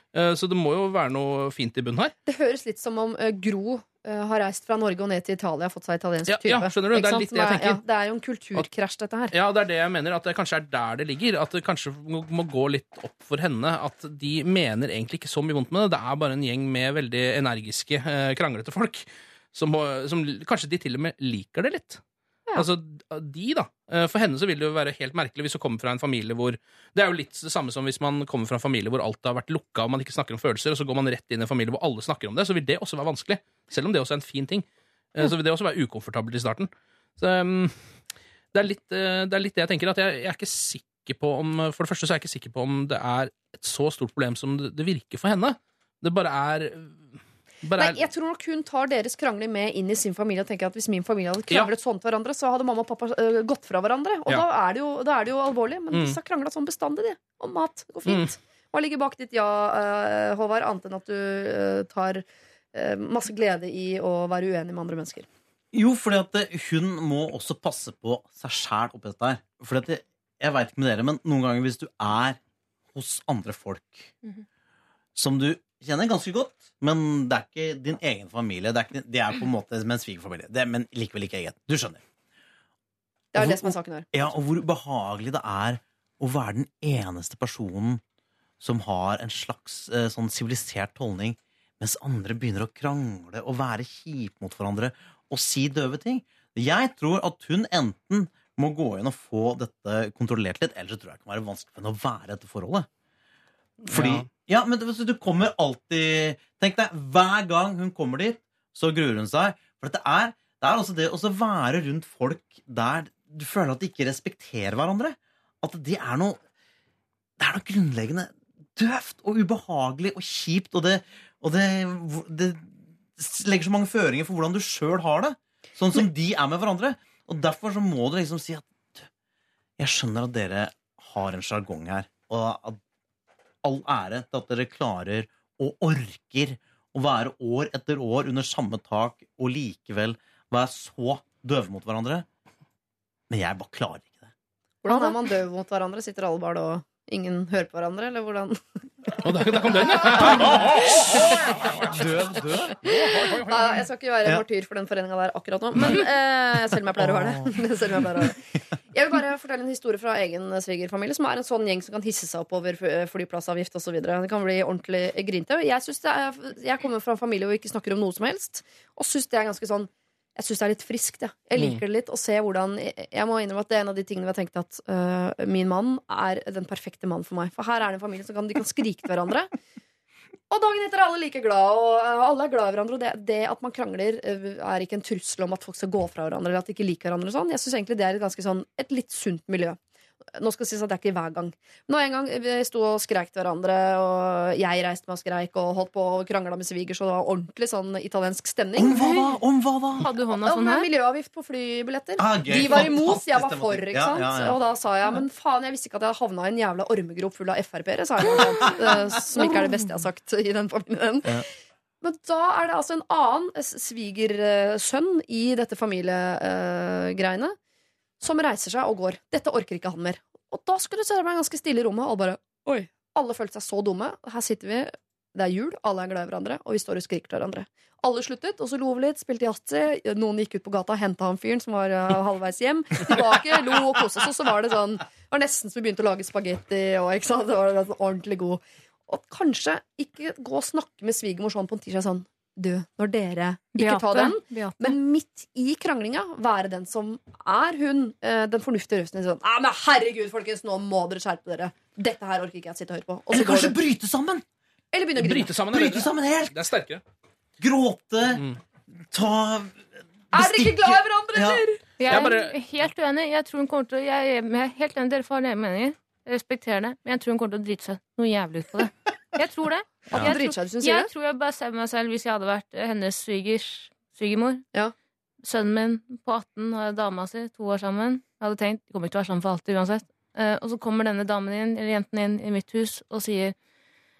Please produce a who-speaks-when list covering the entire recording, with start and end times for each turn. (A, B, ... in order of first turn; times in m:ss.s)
0:00.1-0:02.1 A
0:02.2-0:09.3 B
0:06.3-0:07.8 A
0:09.3-0:22.0 A
0:22.5-0:38.0 A
0:38.5-0:48.0 A
0:47.8-1:05.3 B
0:58.0-0:58.3 A
1:05.7-1:12.4 C
1:12.9-1:14.1 C
1:15.1-1:22.0 C
1:23.3-1:24.2 B
1:23.3-1:28.0 C
1:28.6-1:42.9 C
1:43.8-1:44.3 A
1:43.9-1:56.4 C
1:57.4-2:09.1 C
2:09.8-2:12.8 C
2:13.6-2:22.3 C
2:23.3-2:24.3 C
2:24.8-2:29.2 B
2:24.9-2:25.2 D
2:29.2-2:33.8 A
2:30.0-2:31.5 B
2:30.2-2:31.3 C
2:31.8-2:32.8 C
2:32.8-2:38.4 B
2:38.9-2:59.5 B
3:00.5-3:09.8 B
3:10.3-3:19.1 B
3:18.8-3:20.1 C
3:20.0-3:20.9 D
3:20.4-3:31.4 B
3:22.2-3:24.6 C
3:28.3-3:30.0 D
3:32.0-3:37.6 B
3:38.2-4:13.8 B
4:03.8-4:04.9 D
4:13.3-4:14.4 C
4:14.9-4:15.5 B
4:15.2-4:17.0 A
4:15.6-4:16.5 C
4:17.6-4:18.4 C
4:18.3-4:18.6 A
4:19.1-4:21.6 C
4:20.3-4:21.8 B
4:22.0-4:34.6 D
4:22.1-4:22.5 A
4:30.1-4:31.1 B
4:35.4-4:43.5 D